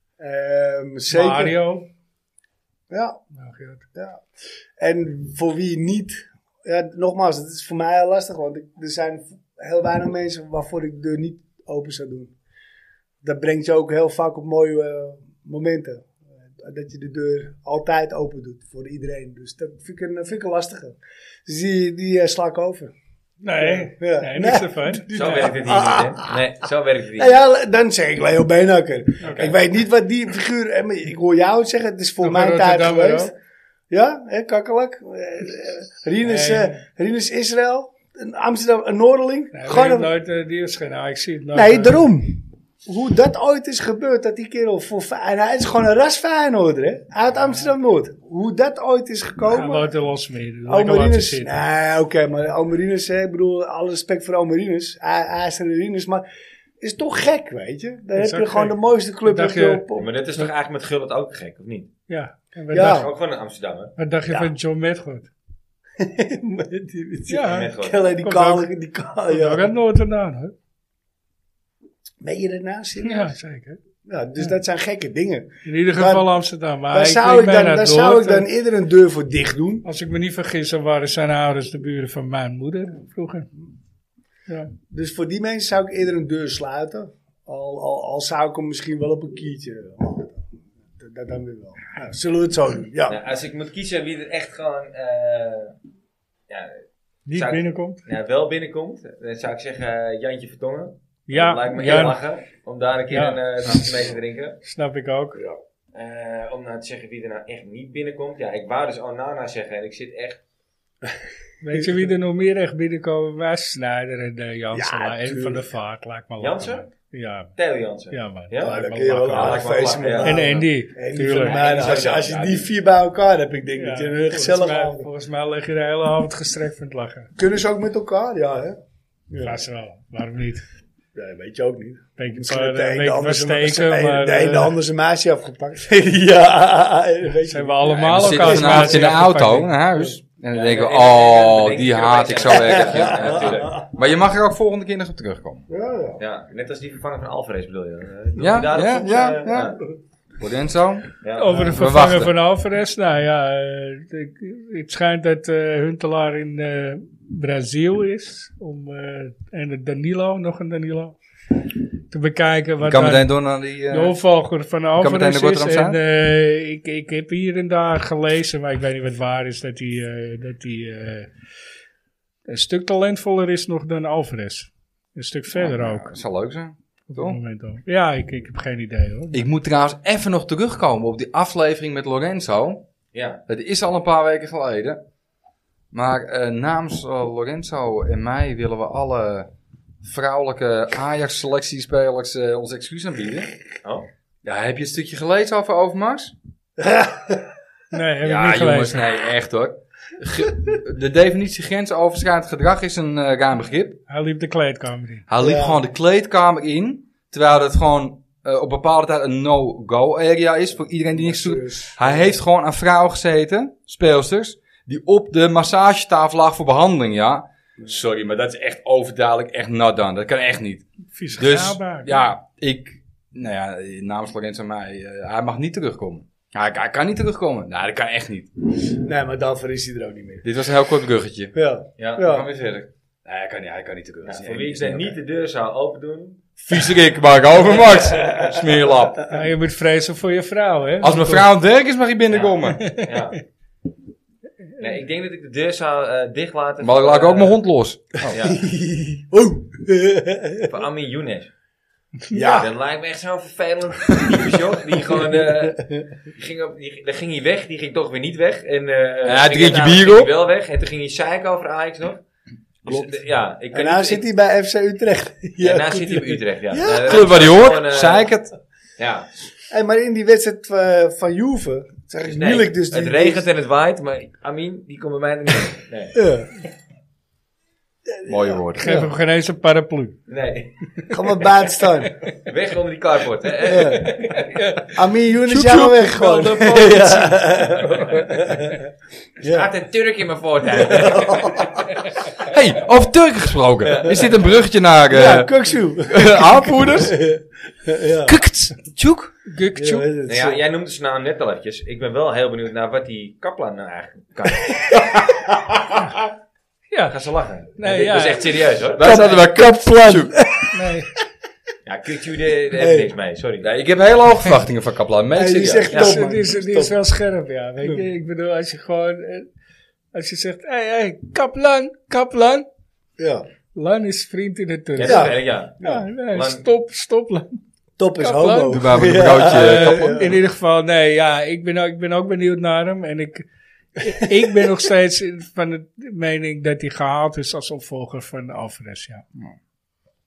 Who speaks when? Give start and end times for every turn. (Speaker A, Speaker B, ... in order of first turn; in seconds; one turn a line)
Speaker A: 0.2-1.6
Speaker B: 1.1-1.9
Speaker A: 2.9-3.2
Speaker B: 3.4-3.8
Speaker A: 3.9-4.2
Speaker A: 4.8-12.3
Speaker A: 13.2-22.9
Speaker B: 23.4-25.4
Speaker A: 23.6-26.4
Speaker C: 25.1-27.4
Speaker A: 27.2-33.3
Speaker B: 29.2-29.5
Speaker B: 32.2-33.3
Speaker A: 33.9-40.1
Speaker B: 36.2-36.8
Speaker B: 39.5-42.0
Speaker A: 41.5-49.9
Speaker B: 49.5-51.5
Speaker A: 50.7-56.2
Speaker A: 56.8-60.1
Speaker B: 58.2-59.9
Speaker C: 60.0-61.9
Speaker B: 62.1-63.1
Speaker A: 62.7-63.1
Speaker C: 62.7-63.9
Speaker B: 64.0-65.3
Speaker A: 66.0-69.7
Speaker B: 67.3-68.7
Speaker C: 67.5-68.0
Speaker B: 69.3-70.5
Speaker A: 72.2-73.3
Speaker B: 73.0-73.8
Speaker A: 74.1-76.3
Speaker B: 75.7-78.5
Speaker A: 76.9-79.8
Speaker B: 79.8-83.5
Speaker A: 84.9-90.4
Speaker A: 91.0-93.2
Speaker C: 93.1-95.8
Speaker C: 96.5-96.8
Speaker B: 97.3-98.0
Speaker C: 97.3-104.6
Speaker B: 101.3-102.2
Speaker B: 103.1-103.9
Speaker B: 104.6-105.4
Speaker C: 105.9-110.4
Speaker B: 111.6-117.5
Speaker A: 111.6-112.0
Speaker A: 114.7-115.6
Speaker C: 116.4-116.9
Speaker C: 117.6-118.8
Speaker B: 118.1-121.6
Speaker A: 118.6-125.1
Speaker C: 119.3-120.5
Speaker C: 121.3-122.7
Speaker B: 123.8-127.3
Speaker A: 127.4-128.8
Speaker A: 129.3-129.6
Speaker B: 129.4-130.6
Speaker A: 131.2-139.1
Speaker B: 132.2-134.8
Speaker B: 137.5-139.7
Speaker D: 137.9-145.7
Speaker C: 140.5-143.8
Speaker A: 142.6-143.8
Speaker A: 145.7-146.2
Speaker C: 146.2-149.8
Speaker D: 148.4-149.8
Speaker A: 148.8-149.9
Speaker D: 150.4-152.3
Speaker C: 151.2-151.5
Speaker B: 151.4-161.2
Speaker B: 162.1-163.3
Speaker D: 162.8-164.2
Speaker B: 163.9-171.3
Speaker D: 165.0-166.0
Speaker B: 172.5-176.2
Speaker D: 175.6-177.4
Speaker B: 177.1-179.5
Speaker D: 179.3-182.8
Speaker C: 183.1-183.4
Speaker D: 183.5-185.0
Speaker D: 185.9-189.5
Speaker D: 190.0-193.5
Speaker D: 194.4-196.3
Speaker A: 196.8-197.5
Speaker B: 197.9-199.1
Speaker D: 198.2-204.0
Speaker B: 204.1-205.3
Speaker D: 205.3-228.5
Speaker A: 205.4-205.8
Speaker A: 211.1-212.4
Speaker B: 221.1-222.3
Speaker A: 228.9-230.4
Speaker D: 230.4-231.6
Speaker A: 231.6-232.5
Speaker C: 232.0-232.4
Speaker D: 232.2-235.1
Speaker C: 234.2-236.4
Speaker D: 236.7-239.3
Speaker C: 237.6-238.3
Speaker B: 239.3-241.5
Speaker D: 241.0-242.8
Speaker C: 242.3-243.4
Speaker B: 242.8-243.2
Speaker C: 244.8-247.6
Speaker D: 246.8-248.4
Speaker C: 248.3-248.6
Speaker A: 248.4-250.7
Speaker C: 250.6-251.5
Speaker B: 252.3-252.6
Speaker A: 252.3-252.7
Speaker C: 252.4-262.2
Speaker A: 255.1-256.1
Speaker D: 259.2-260.3
Speaker C: 262.8-264.2
Speaker A: 263.7-267.3
Speaker C: 265.6-268.3
Speaker D: 267.0-268.5
Speaker C: 269.0-269.3
Speaker A: 269.7-273.5
Speaker C: 272.2-276.2
Speaker A: 276.1-276.5
Speaker A: 278.1-279.1
Speaker D: 278.2-278.9
Speaker B: 278.8-280.2
Speaker C: 280.3-280.7
Speaker A: 281.1-282.2
Speaker C: 282.3-284.6
Speaker A: 283.6-284.2
Speaker B: 284.1-284.9
Speaker A: 284.9-288.9
Speaker D: 285.5-287.1
Speaker B: 286.2-287.3
Speaker A: 289.4-289.7
Speaker C: 289.4-291.9
Speaker A: 290.7-291.8
Speaker D: 292.4-295.5
Speaker C: 293.8-294.5
Speaker A: 295.1-298.4
Speaker D: 296.0-297.2
Speaker D: 298.3-299.3
Speaker B: 299.5-300.1
Speaker A: 299.8-300.6
Speaker C: 300.3-305.2
Speaker A: 304.7-306.1
Speaker B: 306.9-307.2
Speaker C: 307.1-309.4
Speaker B: 307.8-308.5
Speaker D: 309.0-310.4
Speaker A: 309.0-310.8
Speaker B: 310.7-311.1
Speaker C: 311.9-313.7
Speaker A: 312.8-313.1
Speaker D: 313.6-316.0
Speaker A: 315.3-317.0
Speaker C: 315.9-316.2
Speaker B: 315.9-319.5
Speaker B: 320.1-322.7
Speaker A: 323.2-323.4
Speaker B: 323.8-327.6
Speaker C: 325.0-326.6
Speaker A: 325.0-326.1
Speaker A: 328.0-330.4
Speaker B: 328.2-333.5
Speaker D: 328.7-330.2
Speaker B: 334.0-339.2
Speaker A: 334.2-334.7